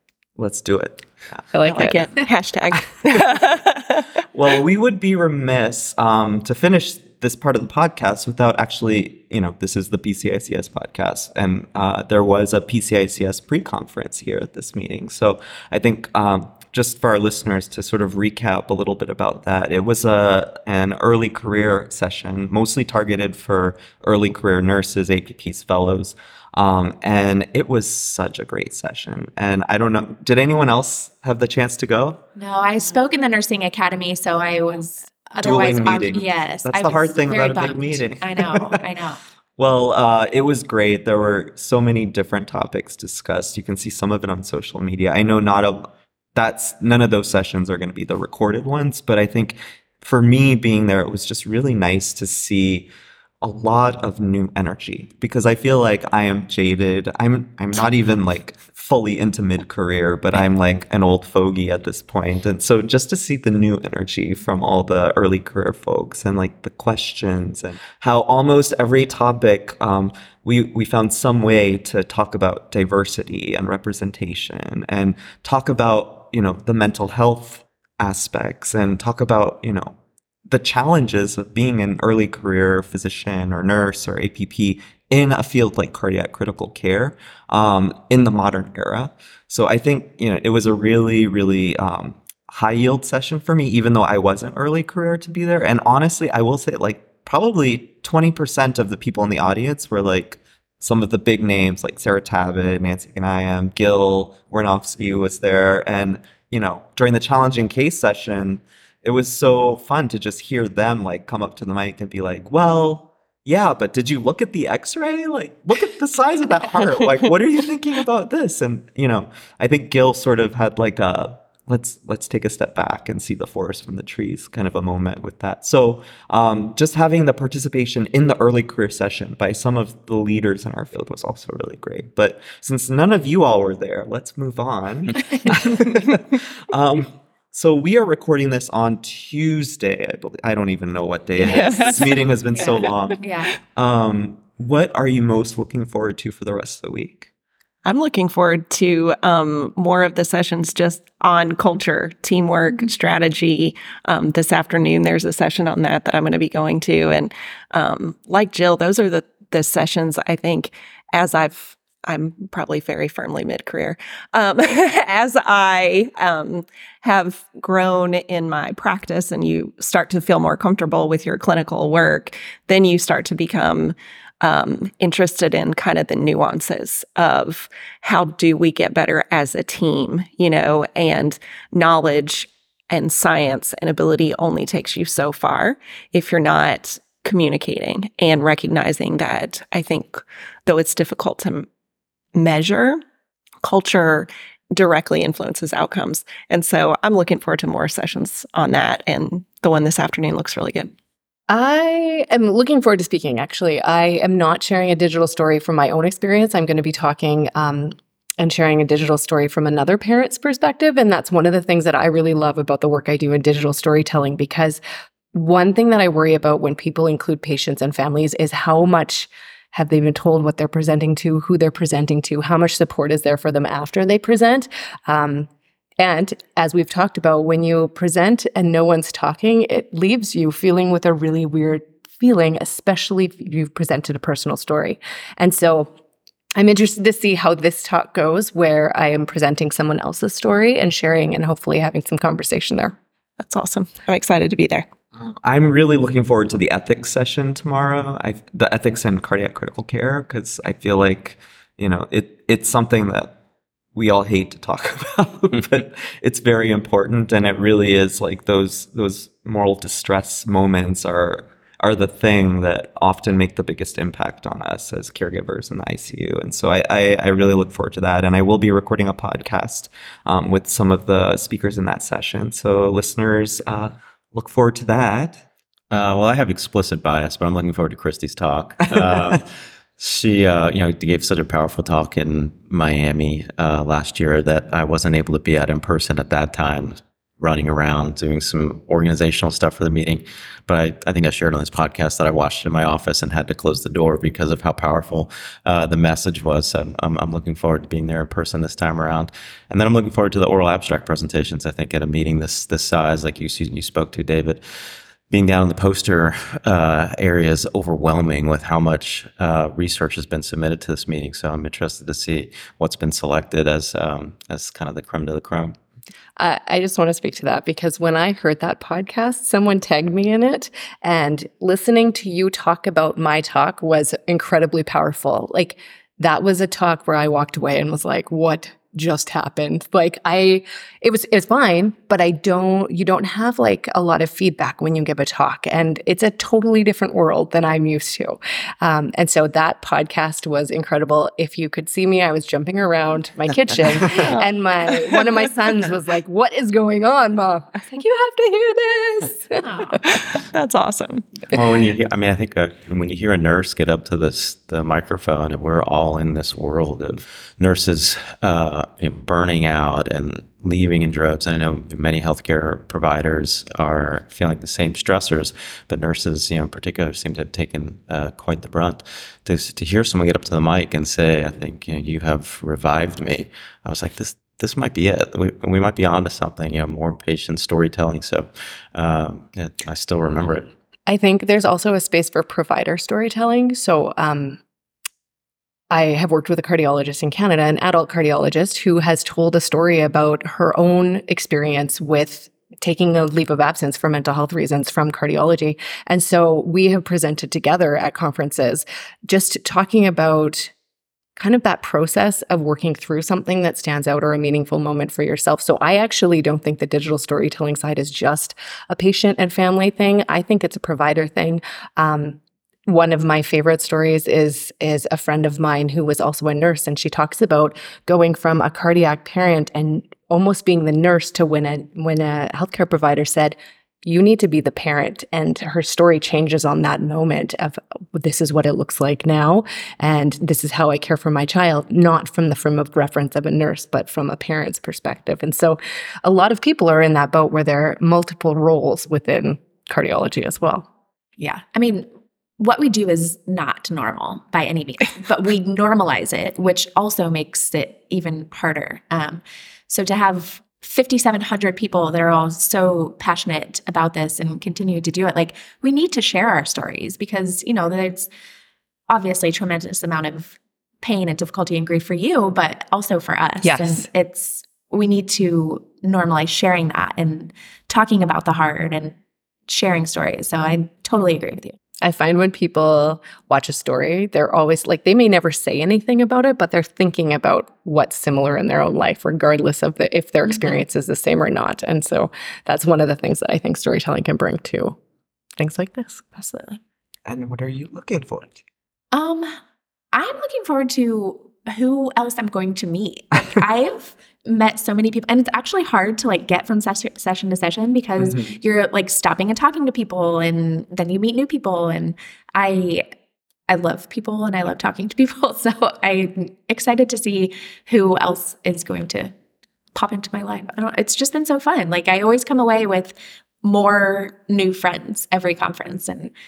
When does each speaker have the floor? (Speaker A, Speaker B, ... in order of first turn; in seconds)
Speaker A: 0.4-1.4, 4.3-32.2, 35.4-38.7, 39.6-52.9, 53.4-80.0, 80.5-143.2, 143.7-147.3, 245.1-253.3, 253.9-275.4, 279.1-279.3, 487.3-488.6
Speaker B: 1.5-2.1, 201.5-214.8, 215.3-235.9, 236.6-243.0, 316.4-350.0, 381.1-384.6, 385.9-400.7, 401.4-440.9, 463.6-464.1, 472.0-484.9, 485.6-486.8
Speaker C: 1.6-4.2, 141.4-142.9, 147.8-191.7, 192.3-193.0, 193.6-200.9, 243.4-244.9, 344.1-344.5, 350.0-351.2
Speaker D: 32.4-39.2, 141.5-141.8, 142.6-143.5, 441.4-442.1, 442.6-458.3, 459.1-469.1, 469.7-471.8, 480.5-480.8, 489.1-489.6, 490.1-503.1, 503.7-509.3, 509.9-516.3
Speaker E: 275.9-315.7, 351.5-380.7